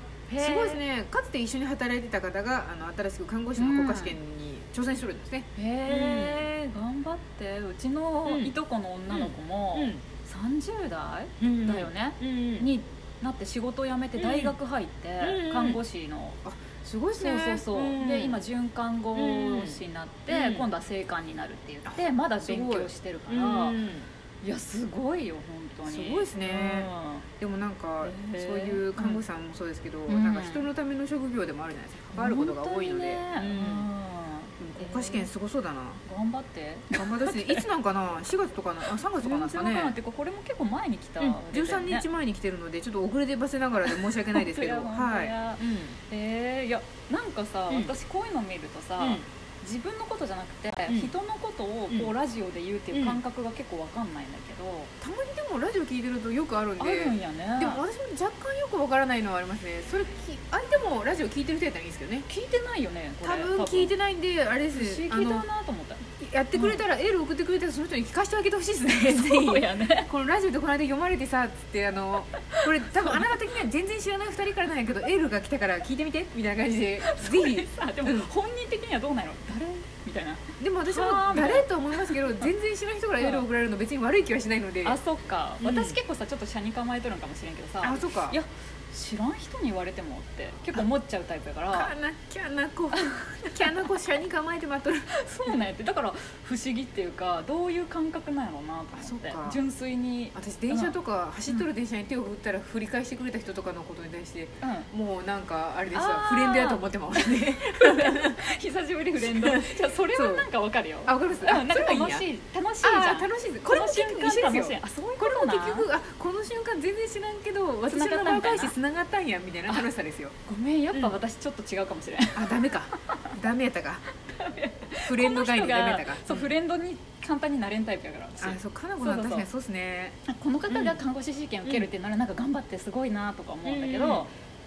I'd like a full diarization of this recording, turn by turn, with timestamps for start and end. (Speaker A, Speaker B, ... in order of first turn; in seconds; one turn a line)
Speaker A: 0.3-0.8
Speaker B: 0.4-6.5
Speaker A: 3.5-4.2
Speaker A: 5.5-16.4
Speaker B: 8.2-8.5
Speaker B: 9.1-10.0
Speaker B: 11.4-12.7
Speaker B: 14.2-14.6
Speaker B: 15.2-15.8
Speaker B: 16.4-18.4
Speaker A: 17.2-23.8
Speaker B: 19.1-20.7
Speaker B: 21.9-24.1
Speaker A: 24.4-27.2
Speaker B: 25.8-33.9
Speaker A: 28.0-29.2
Speaker A: 30.1-30.7
Speaker A: 32.1-35.3
Speaker B: 34.6-36.0
Speaker A: 36.0-37.6
Speaker B: 36.9-40.0
Speaker A: 38.9-42.0
Speaker B: 41.2-46.0
Speaker A: 43.9-54.9
Speaker B: 47.7-47.9
Speaker B: 49.0-49.2
Speaker B: 50.9-51.1
Speaker B: 51.9-52.1
Speaker B: 52.9-53.2
Speaker B: 55.0-62.3
Speaker A: 56.8-57.8
Speaker A: 62.3-63.9
Speaker B: 63.2-65.5
Speaker A: 64.7-66.8
Speaker B: 66.2-78.3
Speaker A: 69.1-70.1
Speaker A: 72.5-73.3
Speaker A: 77.0-82.5
Speaker B: 80.6-85.0
Speaker A: 83.2-83.5
Speaker A: 84.8-91.9
Speaker B: 85.6-86.0
Speaker B: 87.8-88.4
Speaker B: 91.7-95.7
Speaker A: 92.9-94.0
Speaker A: 95.1-101.0
Speaker B: 98.9-99.6
Speaker B: 100.3-108.4
Speaker A: 104.6-104.9
Speaker A: 105.9-115.9
Speaker B: 109.2-110.5
Speaker B: 111.0-112.3
Speaker B: 112.8-120.3
Speaker A: 117.9-118.7
Speaker A: 120.5-122.7
Speaker B: 122.3-124.0
Speaker A: 124.3-129.5
Speaker B: 125.0-126.5
Speaker B: 128.4-130.2
Speaker A: 130.2-134.3
Speaker B: 130.7-131.0
Speaker B: 131.6-131.9
Speaker B: 133.6-134.3